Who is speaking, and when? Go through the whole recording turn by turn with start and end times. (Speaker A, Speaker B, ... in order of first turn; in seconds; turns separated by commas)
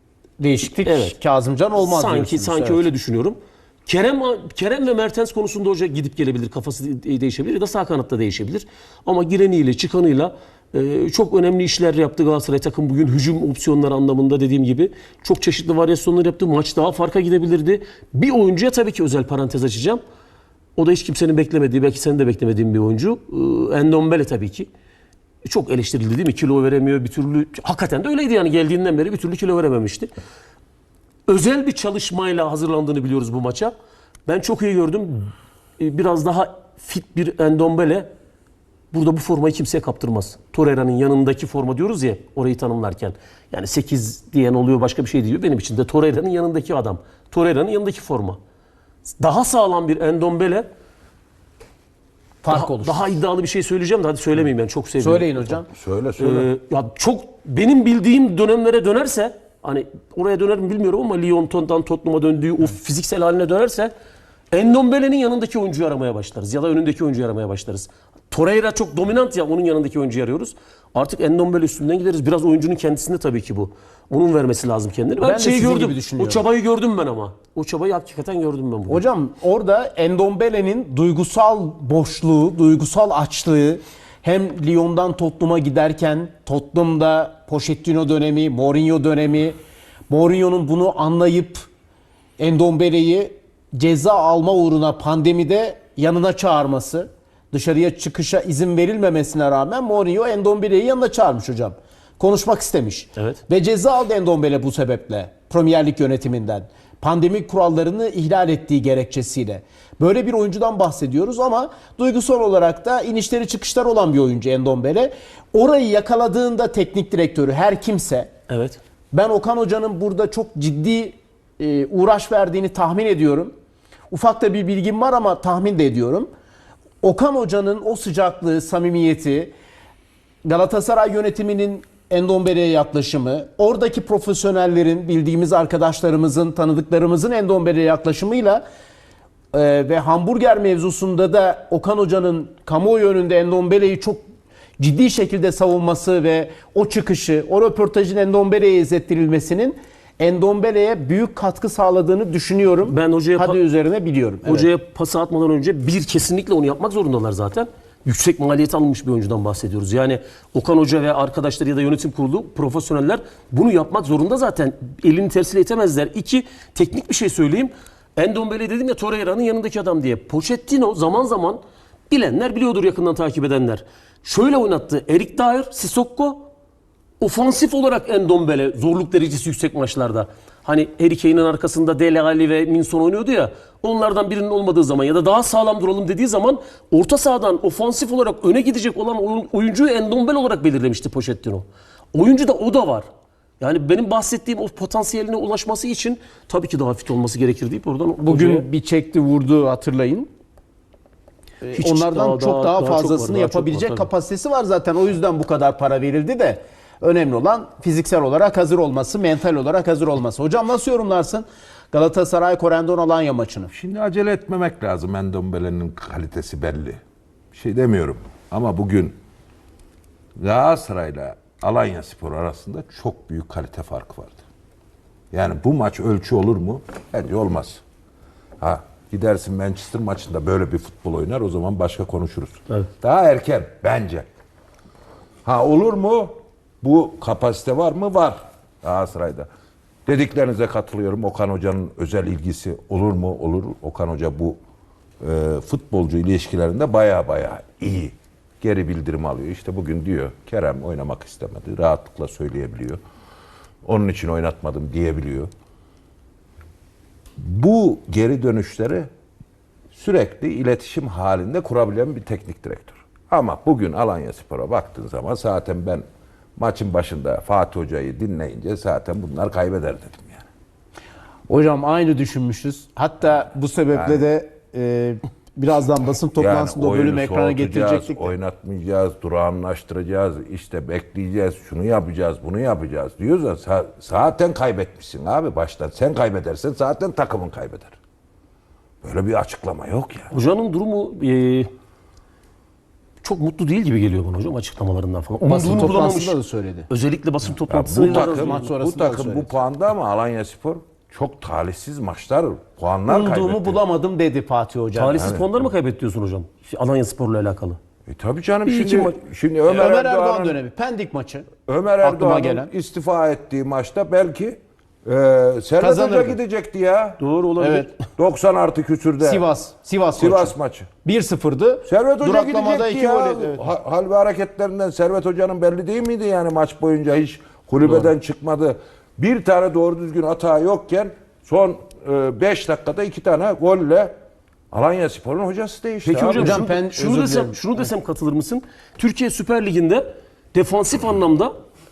Speaker A: 0.4-2.9, Speaker B: 0.8-1.2, Speaker B: 1.8-20.0, Speaker B: 20.8-24.7, Speaker B: 25.4-30.1, Speaker B: 31.3-33.7, Speaker B: 34.3-38.1, Speaker B: 38.9-48.4, Speaker B: 49.2-50.6, Speaker A: 52.4-53.1, Speaker B: 52.5-55.6, Speaker A: 55.0-55.7, Speaker C: 55.7-56.5, Speaker B: 56.2-63.9, Speaker B: 64.5-79.1, Speaker A: 75.2-76.4, Speaker A: 78.9-91.7, Speaker A: 92.4-118.3, Speaker B: 118.5-118.8, Speaker A: 119.1-123.5, Speaker A: 124.1-126.3, Speaker A: 127.0-129.5, Speaker A: 130.4-138.6, Speaker A: 139.5-144.2, Speaker A: 144.8-154.7, Speaker B: 152.8-153.6, Speaker B: 154.4-176.4, Speaker B: 177.2-193.1, Speaker B: 193.6-198.7, Speaker A: 198.2-200.3, Speaker A: 201.6-213.7, Speaker B: 201.7-204.1, Speaker C: 213.7-217.0, Speaker C: 217.5-219.2, Speaker C: 220.4-224.4, Speaker C: 225.3-227.8, Speaker C: 228.6-234.2, Speaker C: 235.4-239.5, Speaker C: 240.1-244.6, Speaker C: 245.2-253.0, Speaker C: 253.8-255.5, Speaker C: 257.4-259.1, Speaker C: 259.9-266.0, Speaker C: 266.6-270.5, Speaker A: 271.5-278.3, Speaker C: 273.9-274.2, Speaker C: 276.4-287.9, Speaker C: 289.0-290.3, Speaker B: 290.3-291.7, Speaker B: 293.2-298.7, Speaker A: 295.4-296.9, Speaker C: 297.7-303.8, Speaker A: 298.0-299.6, Speaker A: 303.1-305.3, Speaker B: 304.9-307.8, Speaker C: 305.1-305.5, Speaker C: 308.1-310.6, Speaker B: 308.6-309.1, Speaker A: 309.7-311.5, Speaker C: 311.6-317.2, Speaker A: 312.0-312.7, Speaker A: 315.8-316.4, Speaker B: 317.2-317.9, Speaker A: 317.6-317.9, Speaker C: 318.2-319.4, Speaker A: 319.2-323.6, Speaker C: 320.1-320.9, Speaker C: 321.8-334.1, Speaker B: 327.8-328.1, Speaker C: 334.7-336.6, Speaker B: 336.1-341.5, Speaker A: 336.3-337.6